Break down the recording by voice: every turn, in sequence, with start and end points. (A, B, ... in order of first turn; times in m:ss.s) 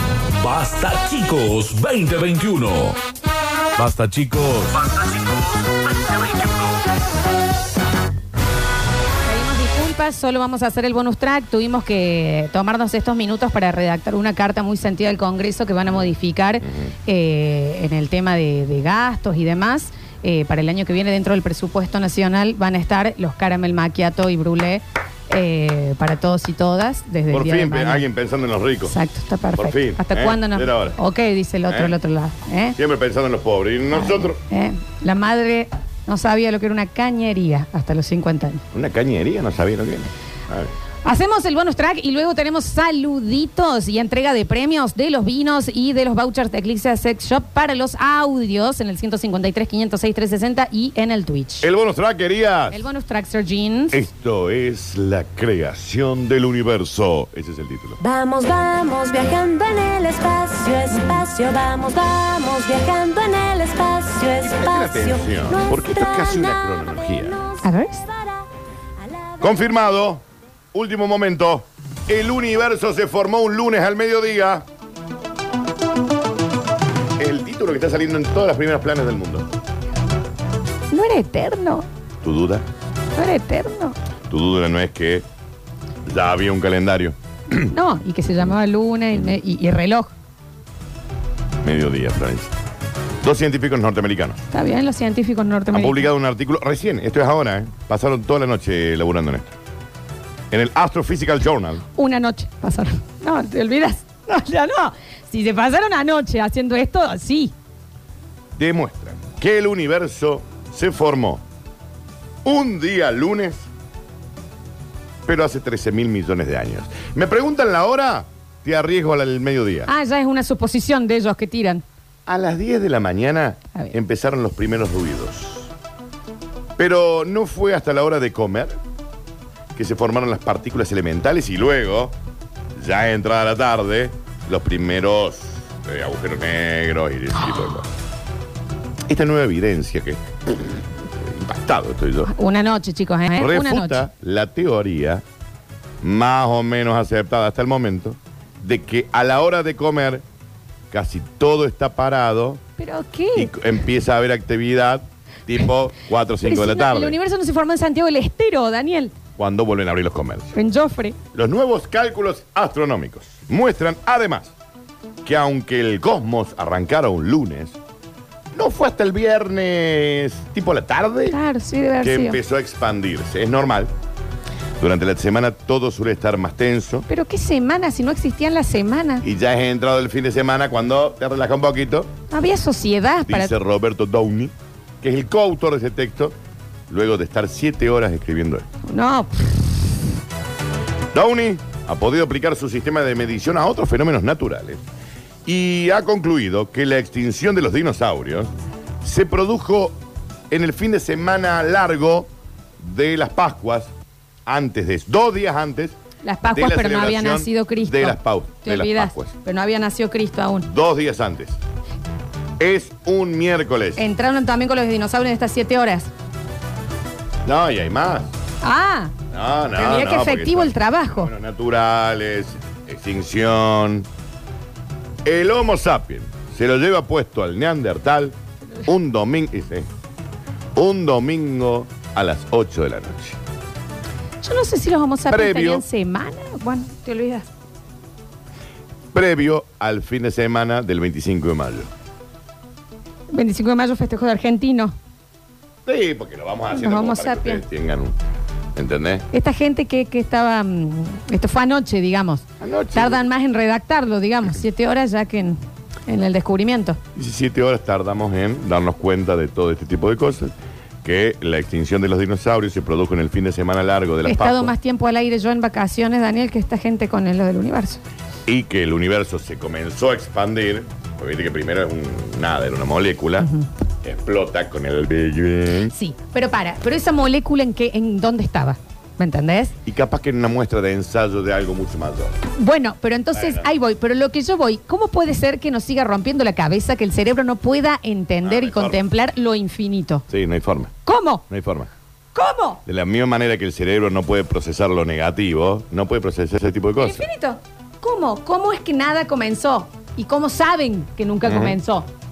0:00.4-0:03.0 A
0:03.8-0:04.8 A
0:09.2-0:28.0 B
0:27.3-0:28.9 C
0:28.8-0:32.8 B
0:29.6-0:31.0 C
0:31.7-0:32.0 C
0:32.8-0:34.4 C
0:33.9-0:38.6 B
0:38.7-0:40.7 C
0:41.0-0:51.7 B
0:51.6-0:52.8 C
0:52.7-0:54.0 B
0:53.9-0:58.0 C
0:58.0-1:08.4 D
1:04.4-1:07.4 C
1:07.6-1:08.0 B
1:09.0-1:09.7 D
1:09.4-1:10.2 C
1:10.7-1:14.6 C
1:17.2-1:19.4 C
1:20.9-1:21.8 B
1:22.2-1:22.7 C
1:23.1-1:24.0 B
1:24.3-1:25.2 C
1:26.1-1:27.6 C
1:27.7-1:30.1 B
1:31.6-1:32.5 C
1:33.2-1:34.4 C
1:34.5-1:36.1 B
1:35.7-1:39.5 C
1:40.5-1:41.8 C
1:42.0-1:47.5 B
1:48.6-1:51.4 C
1:52.4-1:53.7 C
1:55.2-1:59.9 C
1:59.9-2:01.8 B
2:02.3-2:05.7 C
2:06.8-2:08.8 C
2:09.8-2:12.2 C
2:12.8-2:17.9 C
2:19.1-2:22.3 C
2:22.3-2:24.0 B
2:23.4-2:25.2 C
2:26.0-2:30.2 C
2:30.9-2:32.6 C
2:32.8-2:33.5 B
2:33.3-2:37.2 C
2:36.4-2:39.1 B
2:39.4-2:40.5 C
2:40.5-2:41.2 B
2:41.3-2:44.5 C
2:45.2-2:47.8 C
2:48.5-2:51.4 C
2:51.3-2:52.4 B
2:52.0-2:53.9 C
2:54.8-2:57.1 C
2:57.1-2:59.2 B
2:59.2-3:02.1 C
3:02.3-3:03.5 B
3:03.3-3:06.4 C
3:06.9-3:08.7 C
3:08.9-3:09.7 B
3:11.1-3:14.8 C
3:15.5-3:18.5 C
3:19.0-3:20.0 C
3:20.5-3:23.9 C
3:24.5-3:26.0 C
3:26.2-3:30.7 B
3:26.5-3:29.3 C
3:30.6-3:31.6 C
3:32.6-3:34.0 C
3:34.0-3:36.1 B
3:37.5-3:38.3 C
3:38.6-3:39.1 B
3:39.3-3:44.1 C
3:39.8-3:41.3 B
3:45.2-3:49.9 C
3:50.8-3:53.4 C
3:54.4-3:57.5 B
3:55.3-3:55.8 C
3:59.1-4:01.9 C
4:03.3-4:04.9 B
4:05.8-4:08.2 C
4:06.7-4:07.6 B
4:08.8-4:09.2 C
4:09.3-4:17.0 B
4:12.6-4:13.2 C
4:17.2-4:24.7 C
4:24.2-4:28.0 B
4:28.5-4:33.5 C
4:34.0-4:35.9 C
4:35.9-4:39.7 B
4:39.8-4:42.3 C
4:42.6-4:50.2 B
4:43.3-4:43.6 C
4:48.4-4:49.0 C
4:50.3-4:50.9 C
4:51.0-4:51.4 B
4:51.5-4:51.9 C
4:52.3-4:52.8 B
4:52.8-4:57.2 C
4:57.0-5:02.1 B
5:01.4-5:01.8 C